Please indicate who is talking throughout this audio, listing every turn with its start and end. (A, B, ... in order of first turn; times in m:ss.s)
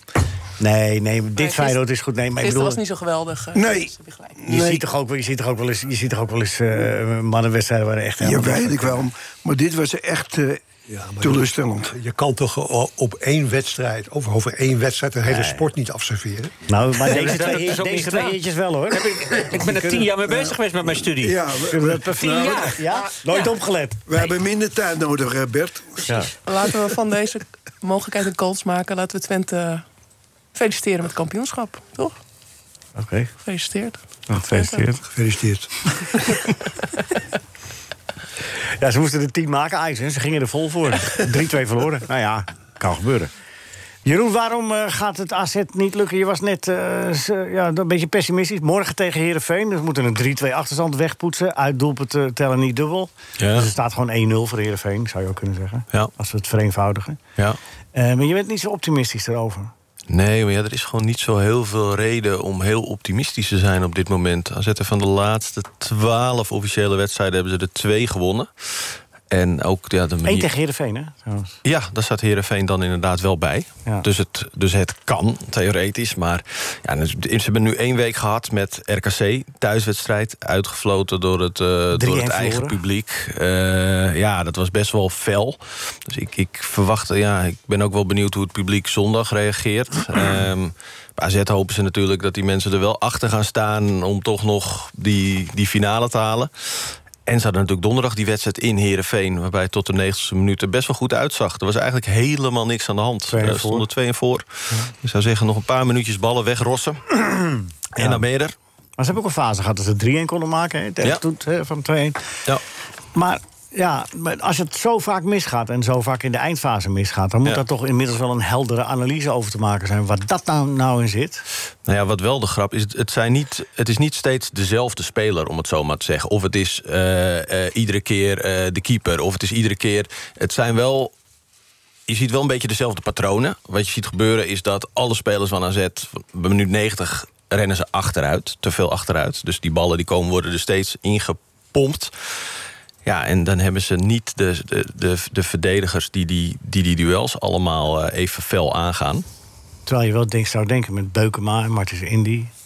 0:00.6-0:02.8 A
0:01.4-0:01.8 B
0:02.4-0:04.4 B
0:03.5-0:04.8 C
0:04.5-0:09.0 A
0:08.2-0:10.6 C
0:10.9-0:16.6 D
0:11.2-0:11.9 C
0:15.2-0:15.6 A
0:16.7-0:20.1 A
0:17.0-0:21.4 E
0:20.2-0:20.6 C
0:21.1-0:22.8 C
0:21.7-0:24.1 A
0:22.2-0:22.8 E
0:24.1-0:26.2 C
0:26.4-0:29.8 B
0:30.5-0:32.1 B
0:33.0-0:33.3 A
0:33.4-0:34.9 B
0:34.3-0:35.0 A
0:35.1-0:35.8 D
0:38.8-0:43.3 A
0:44.0-0:57.2 A
0:53.4-0:53.7 F
0:57.9-0:59.7 A
1:00.1-1:10.5 F
1:10.2-1:11.6 A
1:11.6-1:47.3 F
1:21.9-1:22.8 A
1:43.3-1:43.8 A
1:48.0-1:48.2 A
1:48.0-1:48.5 F
1:49.0-1:52.2 A
1:53.1-2:01.4 A
2:01.8-2:11.1 F
2:12.1-2:22.3 F
2:23.0-2:29.2 F
2:29.9-2:32.5 A